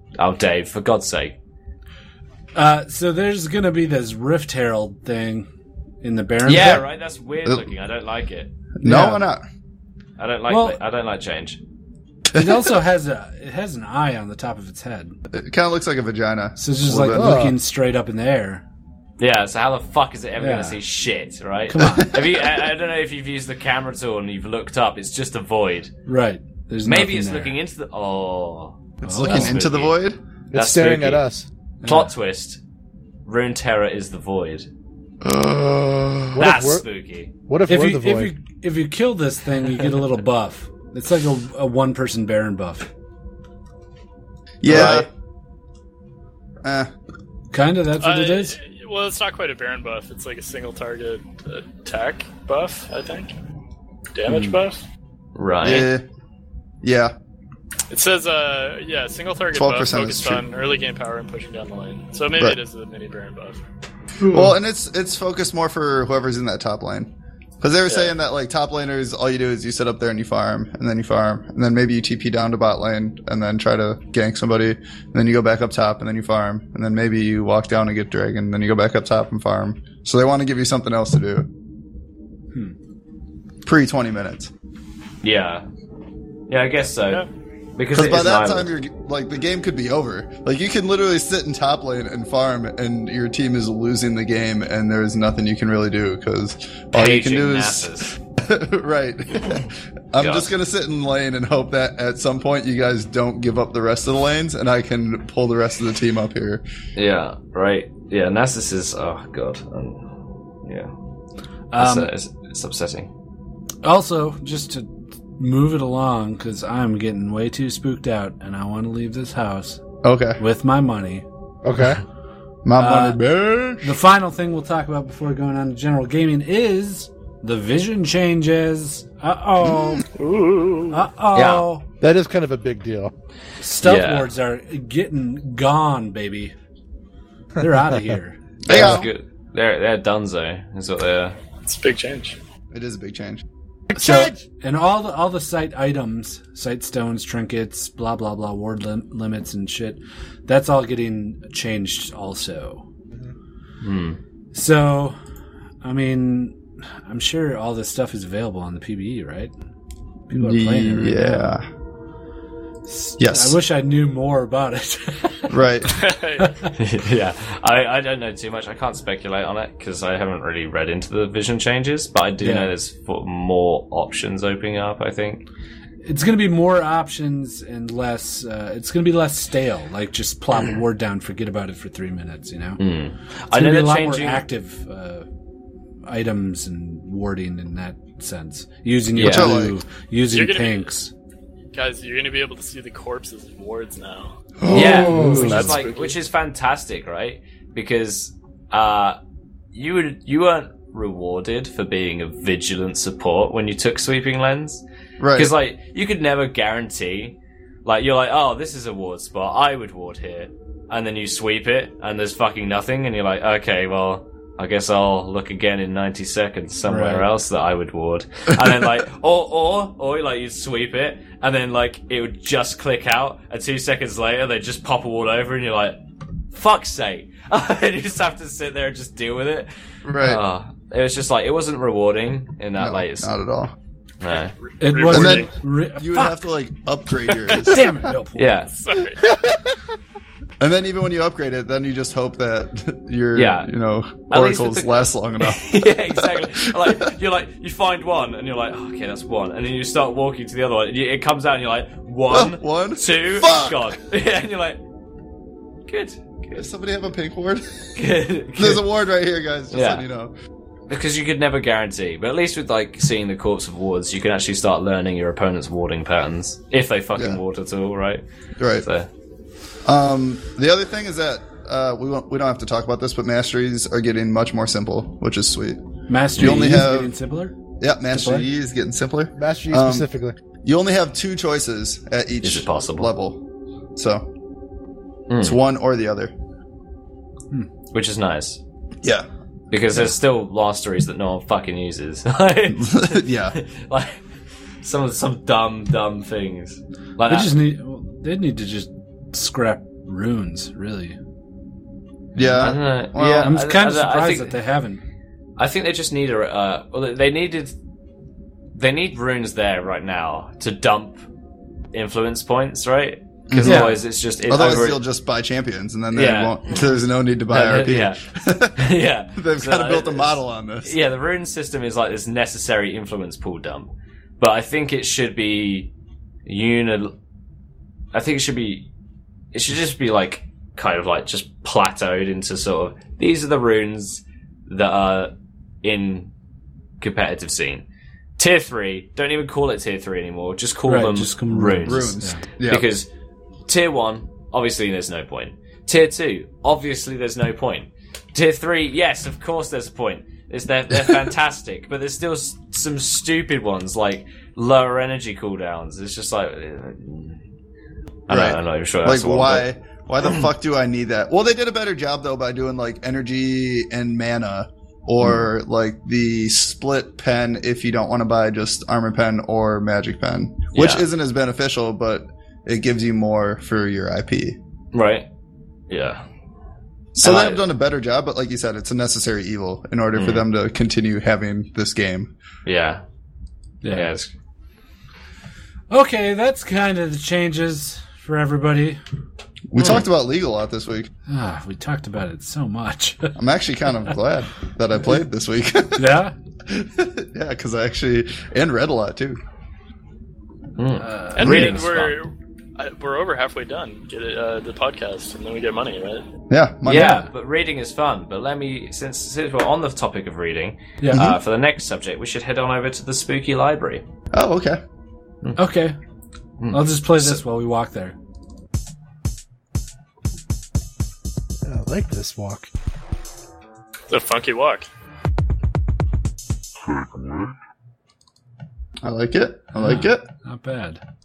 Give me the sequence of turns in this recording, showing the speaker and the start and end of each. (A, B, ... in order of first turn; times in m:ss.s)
0:00.2-0:01.4 A
0:02.6-0:05.5 B
0:06.0-0:06.8 B
0:06.4-0:08.5 A
0:08.8-0:09.4 C
0:08.8-0:09.1 B
0:10.2-0:11.6 A
0:10.5-0:10.8 B
0:12.3-0:12.7 C
0:12.3-0:15.1 B
0:15.3-0:17.4 C
0:16.6-0:18.6 B
0:17.1-0:17.6 D
0:19.2-0:25.9 A
0:20.4-0:20.8 B
0:21.7-0:22.1 B
0:26.1-0:27.6 B
0:26.8-0:30.0 A
0:29.0-0:30.2 C
0:29.0-0:29.5 B
0:30.5-0:31.2 A
0:30.5-0:31.5 D
0:31.8-0:32.1 B
0:31.8-0:32.6 A
0:33.3-0:34.7 A
0:35.2-0:36.4 C
0:36.3-0:36.8 D
0:36.4-0:37.3 A
0:37.5-0:38.3 D
0:37.7-0:42.9 B
0:44.6-0:45.1 C
0:44.6-0:45.1 A
0:46.6-0:46.9 C
0:47.5-0:48.6 B
0:48.0-0:53.3 E
0:54.1-0:54.8 E
0:54.3-0:54.6 B
0:55.4-0:55.9 A
0:55.6-0:56.0 C
0:56.8-0:57.1 C
0:57.9-1:03.6 E
0:59.6-1:00.4 C
1:04.3-1:04.5 B
1:04.3-1:21.5 C
1:07.9-1:08.1 E
1:23.6-1:24.5 C
1:25.2-1:25.7 A
1:26.5-1:27.2 A
1:27.8-1:28.7 A
1:27.9-1:46.6 C
1:36.9-1:38.2 A
1:40.2-1:40.5 A
1:47.0-1:50.9 A
1:51.7-1:52.1 B
1:51.7-1:53.1 A
1:53.8-1:59.8 B
2:00.0-2:00.4 C
2:00.4-2:01.2 B
2:01.6-2:02.0 D
2:02.6-2:03.9 C
2:02.8-2:03.2 B
2:03.8-2:10.0 B
2:09.6-2:10.0 C
2:10.2-2:11.0 E
2:10.9-2:11.8 B
2:11.3-2:11.7 A
2:12.0-2:13.1 D
2:13.6-2:16.5 B
2:13.8-2:14.3 A
2:17.6-2:18.4 B
2:18.6-2:19.1 C
2:18.7-2:21.4 A
2:21.6-2:22.4 E
2:22.7-2:23.4 C
2:23.9-2:24.4 D
2:24.0-2:32.8 B
2:33.8-2:34.2 A
2:34.5-2:35.2 B
2:35.8-2:39.5 B
2:40.3-2:41.6 B
2:40.3-2:41.7 C
2:42.9-2:45.5 B
2:43.2-2:43.6 C
2:45.5-2:46.0 C
2:46.0-2:46.5 E
2:46.4-2:46.7 B
2:46.8-2:55.4 A
2:52.4-2:52.7 B
2:56.0-3:02.8 B
3:02.8-3:04.4 A
3:03.5-3:05.3 B
3:06.1-3:11.1 B
3:09.2-3:09.6 A
3:09.2-3:09.8 C
3:10.3-3:10.9 E
3:11.7-3:14.4 E
3:14.6-3:15.5 C
3:14.7-3:19.2 A
3:14.7-3:15.6 D
3:14.8-3:15.7 B
3:15.4-3:16.2 E
3:19.7-3:24.8 A
3:25.2-3:25.5 C
3:25.3-3:46.0 A
3:36.9-3:37.3 B
3:46.5-3:53.3 A
3:50.0-3:50.4 C
3:52.8-3:53.7 C
3:54.2-3:54.5 A
3:54.6-3:55.5 E
3:54.8-3:56.4 B
3:55.1-3:58.1 C
3:57.6-3:58.6 B
3:58.4-3:58.7 A
3:58.7-3:59.2 E
4:00.6-4:07.0 C
4:03.4-4:03.7 A
4:04.3-4:14.8 A
4:12.3-4:13.9 C
4:15.9-4:16.7 A
4:16.5-4:17.9 C
4:18.0-4:18.8 A
4:18.6-4:20.3 C
4:19.7-4:20.0 A
4:20.9-4:29.1 A
4:27.2-4:27.4 C
4:28.6-4:28.9 C
4:29.8-4:35.8 C
4:36.1-4:37.5 B
4:36.4-4:37.1 C
4:37.8-4:40.1 C
4:38.1-4:38.5 B
4:39.4-4:40.4 D
4:40.6-4:43.4 C
4:42.4-4:43.1 A
4:44.0-4:44.3 C
4:45.3-4:45.6 A
4:45.4-4:46.3 C
4:47.9-4:48.6 A
4:49.7-4:54.2 A
4:52.7-4:53.6 C
4:54.8-4:57.6 A
4:57.3-5:01.2 B
5:02.4-5:03.6 C
5:02.6-5:04.5 A
5:03.4-5:05.0 B
5:05.6-5:07.7 A
5:08.7-5:11.2 A
5:11.9-5:15.0 A
5:13.5-5:21.0 C
5:13.6-5:14.0 B
5:16.1-5:16.9 A
5:17.5-5:18.2 A
5:18.8-5:25.9 A
5:26.5-5:27.1 A
5:28.1-5:28.9 A
5:29.5-5:35.3 A
5:35.8-5:36.3 A
5:37.0-5:37.8 A
5:38.4-5:42.2 A
5:40.9-5:42.4 B
5:41.8-5:42.9 C
5:42.7-5:43.1 A
5:43.7-5:57.4 A
5:58.3-5:59.7 A
5:58.3-6:14.6 C
6:10.7-6:11.0 A
6:14.9-6:15.3 A
6:15.9-6:16.2 A
6:17.2-6:22.3 C
6:17.2-6:17.6 A
6:20.2-6:20.4 A
6:22.7-6:23.0 A
6:23.8-6:24.1 B
6:23.9-6:24.3 A
6:25.9-6:29.0 B
6:29.7-6:31.1 C
6:29.8-6:30.0 A
6:31.3-6:33.4 B
6:33.4-6:36.1 C
6:36.0-6:36.3 B
6:36.7-6:39.4 C
6:40.8-6:42.2 A
6:41.0-6:41.8 B
6:41.3-6:46.2 E
6:41.4-6:41.8 C
6:46.5-6:47.2 C
6:46.8-6:54.0 A
6:46.9-6:47.3 B
6:51.0-6:51.3 B
6:51.1-6:51.4 C
6:54.3-6:54.8 C
6:55.6-6:56.0 B
6:56.6-6:57.4 A
6:56.7-6:58.2 B
7:01.7-7:02.7 D
7:04.1-7:04.9 E
7:09.0-7:10.3 C
7:09.8-7:11.0 B